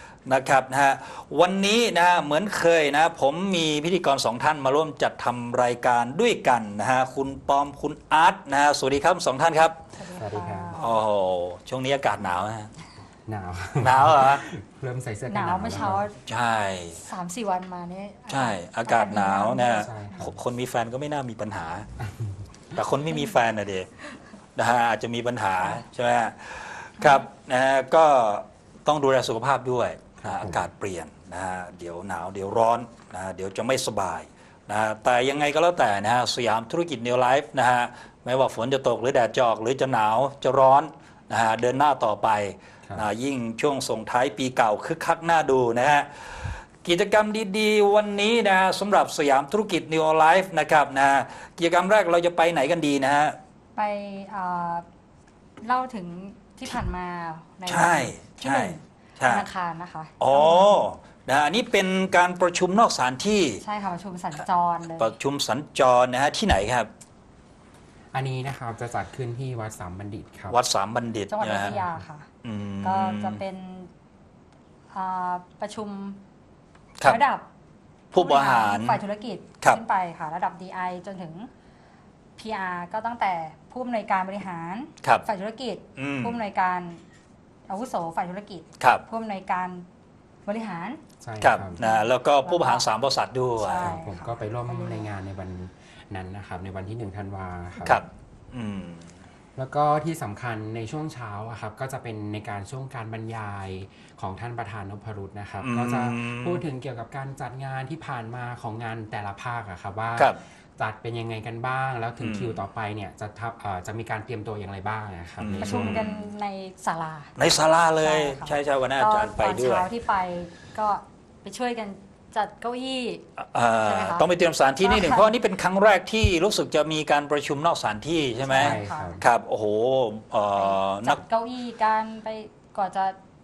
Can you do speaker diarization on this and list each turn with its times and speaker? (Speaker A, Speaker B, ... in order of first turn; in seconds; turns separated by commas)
Speaker A: 0.2-9.8, Speaker B: 9.9-10.9, Speaker C: 10.1-10.8, Speaker A: 10.7-12.7, Speaker C: 13.3-16.1, Speaker A: 13.8-14.4, Speaker B: 15.3-16.1, Speaker A: 16.2-17.0, Speaker B: 17.0-19.9, Speaker A: 18.3-21.9, Speaker C: 19.8-20.3, Speaker C: 22.0-22.4, Speaker A: 22.7-23.9, Speaker A: 24.6-53.4, Speaker B: 27.0-27.2, Speaker C: 30.2-30.6, Speaker B: 53.8-54.8, Speaker B: 55.6-60.7, Speaker A: 57.7-59.5, Speaker A: 60.2-63.6, Speaker B: 63.6-65.1, Speaker A: 64.9-66.9, Speaker C: 68.1-70.6, Speaker A: 70.5-71.8, Speaker B: 71.3-72.3, Speaker A: 72.4-73.4, Speaker B: 72.8-73.9, Speaker B: 74.9-76.2, Speaker B: 77.0-77.5, Speaker A: 78.1-79.0, Speaker B: 78.1-81.5, Speaker B: 82.4-87.0, Speaker A: 86.0-86.4, Speaker B: 87.7-89.8, Speaker B: 90.5-91.0, Speaker C: 91.2-91.8, Speaker A: 91.4-94.0, Speaker B: 91.8-92.9, Speaker B: 93.6-95.1, Speaker C: 93.7-98.0, Speaker A: 97.8-99.1, Speaker C: 99.5-116.0, Speaker A: 105.6-106.6, Speaker A: 112.2-112.6, Speaker A: 115.4-116.3, Speaker B: 115.6-117.3, Speaker A: 117.4-119.9, Speaker B: 118.0-123.2, Speaker A: 123.4-131.2, Speaker B: 123.8-124.3, Speaker B: 124.8-125.3, Speaker B: 128.4-129.2, Speaker C: 128.5-129.2, Speaker B: 130.6-133.2